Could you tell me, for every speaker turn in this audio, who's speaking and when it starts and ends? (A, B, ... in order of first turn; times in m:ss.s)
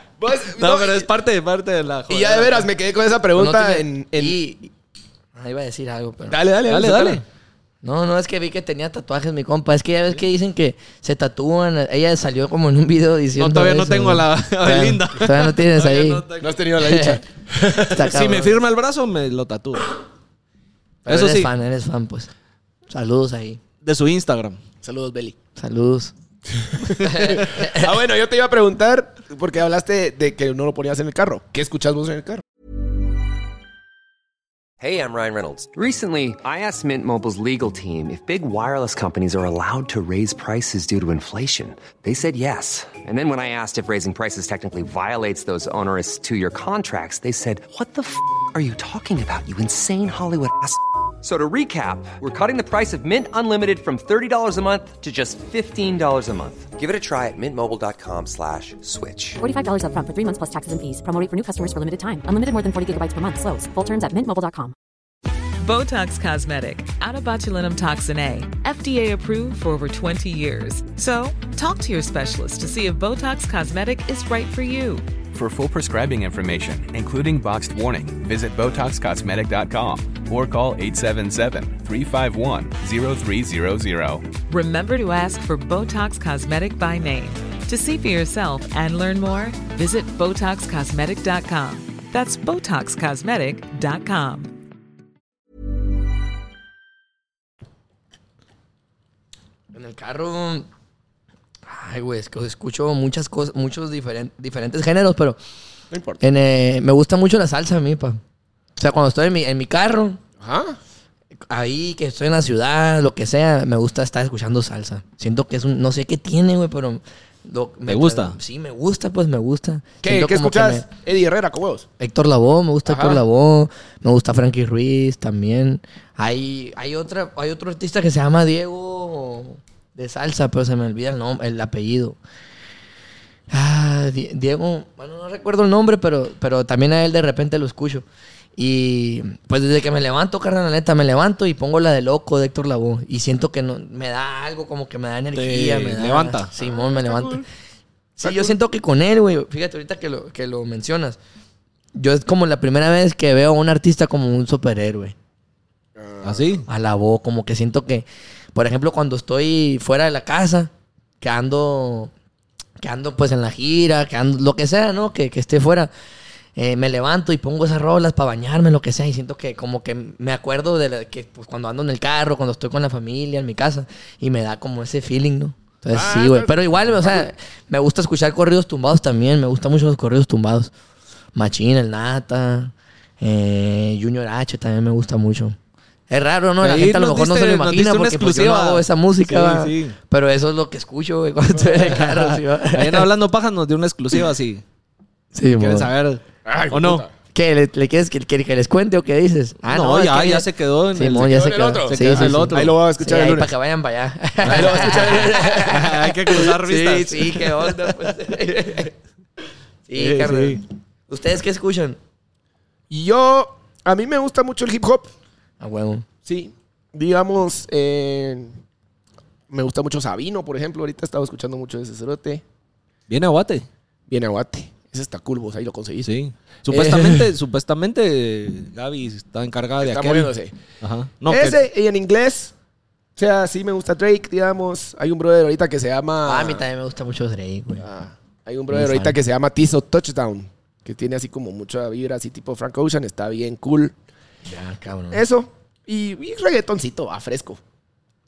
0:00.2-0:01.1 A
0:00.6-0:02.7 B
0:02.1-0:04.4 A
0:03.4-0:04.7 C
0:05.4-0:06.4 C
0:06.3-0:07.2 A
0:06.7-0:07.2 B
0:07.8-0:16.2 C
0:13.4-0:16.5 B
0:16.4-0:18.1 A
0:16.8-0:17.2 C
0:17.9-0:18.6 C
0:18.0-0:19.9 B
0:21.0-0:22.3 C
0:21.1-0:21.5 B
0:22.9-0:23.6 C
0:23.8-0:24.6 B
0:24.8-0:25.4 A
0:25.6-0:26.1 C
0:26.6-0:32.4 A
0:26.9-0:27.9 C
0:34.8-0:59.4 D
0:59.4-1:04.7 E
1:05.6-1:15.1 F
1:15.3-1:24.3 G
1:24.5-1:34.5 F
1:39.7-1:40.7 C
1:41.7-1:45.4 C
1:45.9-1:46.2 A
1:46.2-1:48.2 C
1:48.8-1:50.2 C
1:50.4-1:50.8 A
1:51.5-2:00.8 C
1:57.9-1:58.4 B
2:00.0-2:01.9 A
2:02.0-2:12.2 C
2:02.8-2:03.2 A
2:13.5-2:18.0 C
2:18.6-2:27.4 C
2:25.3-2:26.5 B
2:26.6-2:27.4 A
2:28.2-2:31.2 C
2:28.2-2:28.6 A
2:31.9-2:35.1 C
2:36.0-2:36.6 A
2:36.2-2:36.6 B
2:36.7-2:42.1 C
2:42.8-2:45.9 C
2:46.6-3:00.7 C
2:55.9-2:57.3 A
3:01.3-3:05.6 C
3:06.1-3:13.1 C
3:06.6-3:10.0 B
3:11.9-3:14.6 B
3:15.3-3:15.9 C
3:15.5-3:17.0 B
3:16.4-3:17.1 A
3:17.3-3:28.9 C
3:19.7-3:22.8 B
3:21.1-3:23.5 A
3:24.4-3:25.8 A
3:24.5-3:27.7 B
3:29.9-3:32.0 C
3:30.0-3:30.6 B
3:32.9-3:35.1 A
3:35.6-3:36.0 C
3:36.2-3:38.6 A
3:39.5-3:42.4 A
3:43.1-3:43.7 B
3:44.1-3:46.1 A
3:46.0-3:51.6 B
3:49.8-3:50.5 A
3:51.2-3:52.5 A
3:53.2-3:56.6 A
3:56.2-3:57.8 C
3:57.8-4:03.9 A
3:58.7-3:59.2 C
4:04.5-4:05.2 C
4:05.1-4:07.6 A